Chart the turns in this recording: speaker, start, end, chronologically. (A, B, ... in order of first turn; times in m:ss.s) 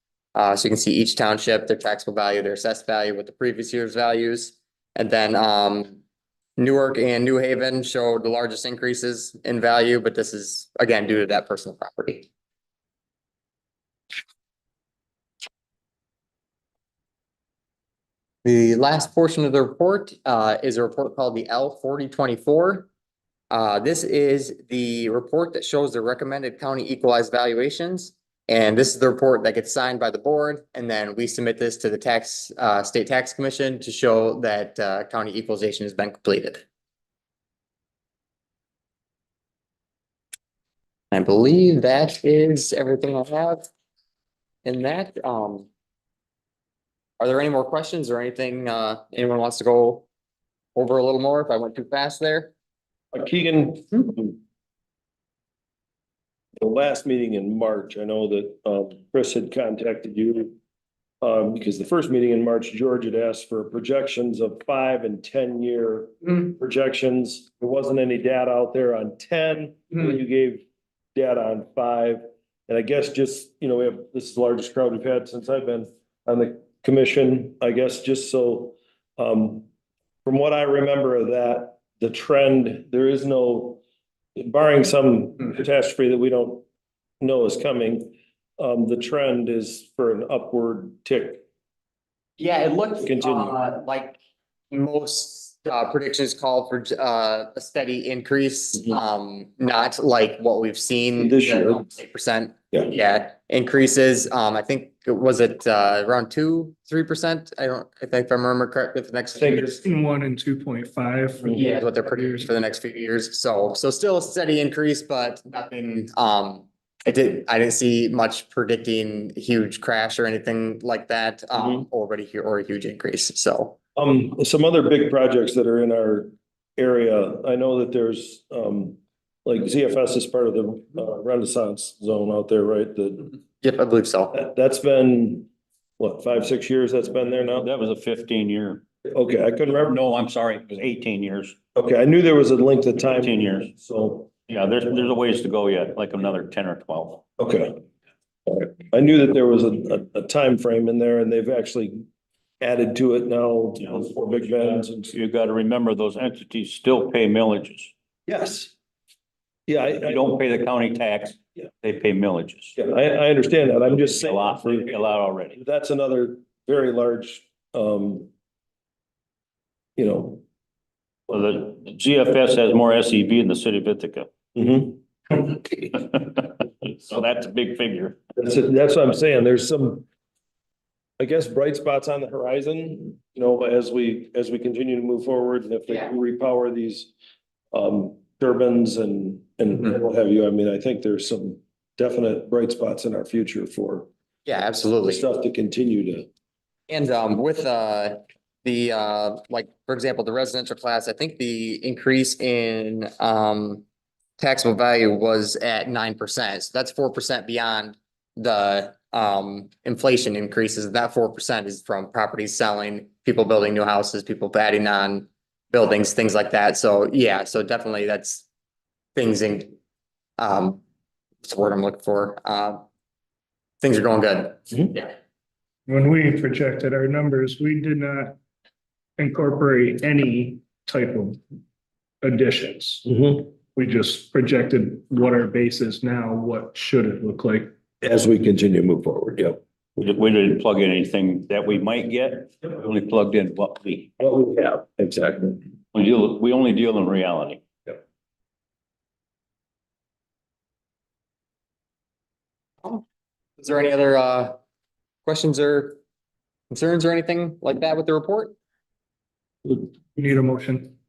0:00.4-0:06.0 A
0:06.6-0:12.3 A
0:18.4-0:22.9 A
0:23.5-0:36.6 A
0:41.1-0:43.7 A
0:44.6-0:45.7 A
0:47.2-0:50.1 A
0:50.8-0:52.5 A
0:53.1-0:54.4 B
0:56.6-1:00.6 B
1:01.2-1:19.7 B
1:20.2-1:23.8 B
1:24.4-1:26.6 B
1:27.2-1:31.4 B
1:32.4-1:34.2 A
1:33.0-1:33.6 B
1:34.7-1:49.8 A
1:41.2-1:41.8 B
1:49.4-1:49.8 B
1:49.8-1:51.8 C
1:51.6-2:03.8 A
2:01.6-2:01.9 B
2:04.0-2:13.3 B
2:13.6-2:14.3 A
2:14.3-2:15.5 B
2:16.0-2:17.7 B
2:17.6-2:18.8 D
2:19.1-2:20.0 B
2:19.9-2:21.6 D
2:21.8-2:24.3 B
2:23.1-2:23.7 D
2:24.5-2:27.2 D
2:27.4-2:27.8 B
2:28.5-2:32.0 B
2:32.6-2:35.1 B
2:35.1-2:37.9 D
2:38.3-2:38.7 B
2:39.7-2:40.4 B
2:40.0-2:42.8 D
2:42.8-2:45.0 B
2:43.9-2:45.6 D
2:45.5-2:48.3 B
2:50.0-2:50.4 B
2:51.3-2:54.3 D
2:54.6-2:55.0 B
2:55.3-2:58.2 D
2:58.4-3:00.1 B
3:01.2-3:07.1 B
3:07.7-3:14.1 B
3:14.5-3:15.2 A
3:15.1-3:16.3 B
3:16.9-3:23.8 A
3:24.4-3:38.5 A
3:39.2-3:39.8 A
3:40.4-3:40.8 A
3:41.4-3:42.8 A
3:43.8-3:45.1 A
3:45.9-3:48.4 C
3:49.2-3:51.4 C
3:52.2-3:53.1 C
3:53.1-3:53.5 B
3:53.7-3:57.7 C
3:58.0-3:59.6 B
4:00.0-4:04.1 D
4:04.2-4:05.6 B
4:05.9-4:07.6 D
4:13.6-4:14.6 A
4:15.3-4:16.0 A
4:16.7-4:18.6 A
4:20.2-4:20.9 C